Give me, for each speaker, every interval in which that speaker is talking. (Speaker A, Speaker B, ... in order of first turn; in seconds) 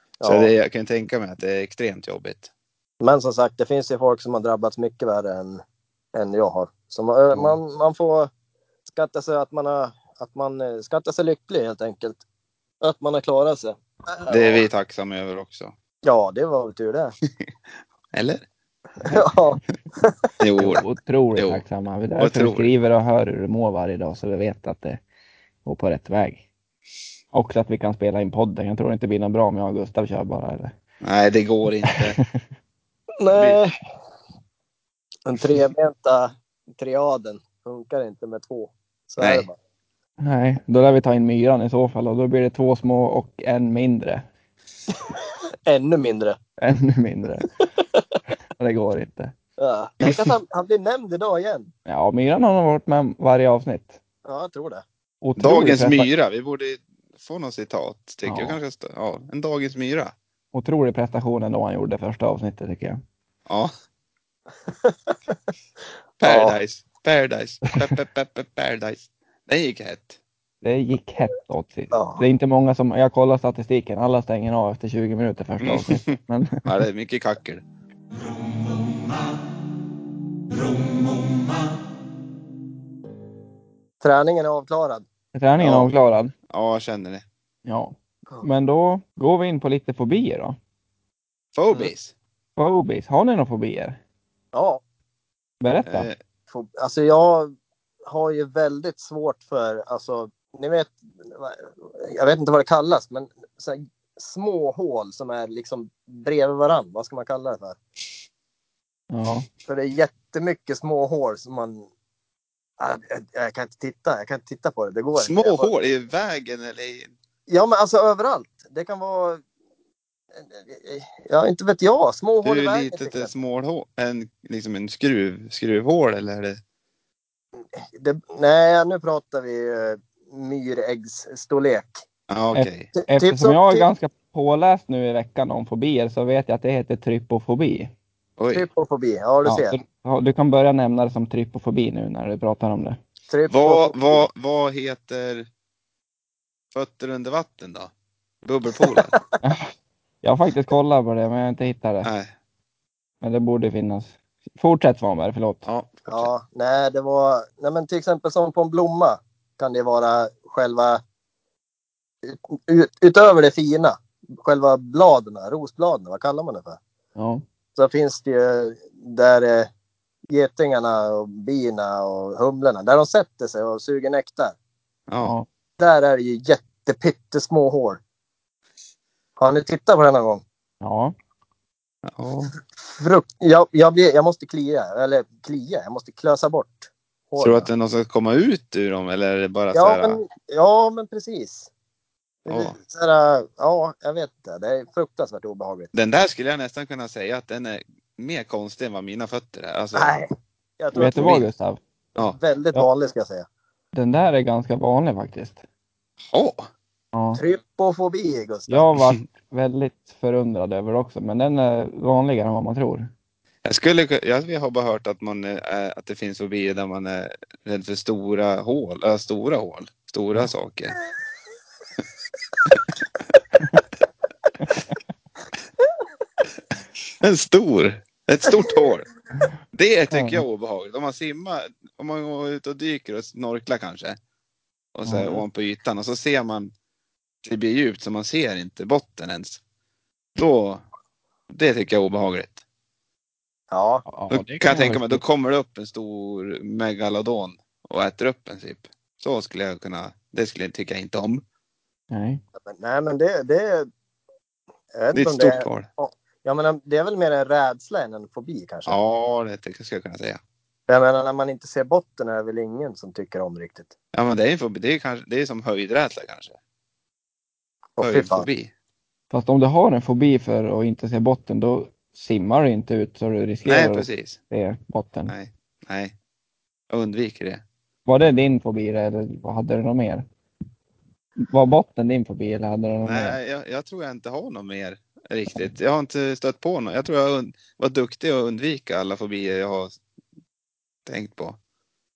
Speaker A: 0.2-0.5, 3.0-5.6, 6.1-8.3, 8.8-12.2, 12.8-14.6, 16.0-17.1, 19.1-20.3, 33.2-33.7, 35.2-39.5, 45.6-46.4, 49.6-51.7, 54.2-54.8, 64.7-65.3, 66.2-66.5, 71.9-72.2, 84.0-85.0, 94.5-94.8, 96.5-97.5, 98.0-107.8, 109.7-111.9, 112.8-115.7, 117.5-119.4, 120.3-123.3, 127.7-132.0, 132.9-133.8, 138.5-139.8, 143.3-144.2, 148.8-149.2, 156.1-161.0, 162.2-166.8, 167.8-169.7, 170.3-174.5, 175.8-178.0, 179.4-180.4, 182.9-187.7, 189.7-191.7, 192.4-195.9, 199.9-200.2, 200.8-201.4, 202.2-203.4, 207.3-208.8, 243.7-244.1, 252.6-253.9, 254.9-259.0, 260.9-263.9, 268.0-268.5
Speaker B: 0.2-2.5, 14.3-15.7, 18.1-18.4, 20.4-20.8, 21.3-21.6, 22.2-22.7, 31.0-32.2, 33.3-33.6, 39.2-39.5, 55.4-60.1, 63.5-63.7, 66.2-70.2, 75.6-77.6, 85.6-85.9, 86.5-87.2, 91.5-92.1, 95.8-96.2, 115.2-117.1, 122.4-126.6, 132.3-132.9, 138.4-138.7, 143.5-145.5, 146.7-147.9, 148.4-149.1, 152.0-152.3, 155.6-156.3, 175.1-175.3, 182.1-182.5, 187.4-190.2, 192.5-192.8, 195.9-200.1, 201.0-201.5, 206.3-206.7, 213.6-220.9, 227.2-229.1, 229.7-234.2, 234.9-236.7, 237.4-239.6, 240.3-240.8, 241.5-242.6, 244.3-251.4, 255.1-255.9, 258.9-260.4, 264.1-266.6, 268.0-268.7, 273.6-274.4, 275.3-276.1, 276.9-277.6, 283.0-290.0, 291.1-291.6
Speaker C: 19.0-19.3, 20.6-25.0, 25.6-26.4, 27.3-30.7, 31.9-32.3, 40.2-44.2, 46.6-47.6, 48.6-49.3, 51.9-54.0, 55.2-56.1, 58.2-58.6, 60.5-63.0, 70.6-76.6, 85.3-86.3, 87.7-90.5, 92.6-94.0, 95.6-96.1, 109.1-109.5, 132.5-137.9, 139.4-143.0, 149.4-149.7, 150.2-152.1, 153.2-155.7, 167.2-167.4, 180.8-181.1, 200.9-201.8, 203.9-205.6, 207.1-207.4, 208.7-213.1, 224.6-224.9, 230.1-230.4, 235.0-235.4, 244.1-245.2, 252.1-252.4, 269.3-275.3, 278.1-280.2, 281.4-283.4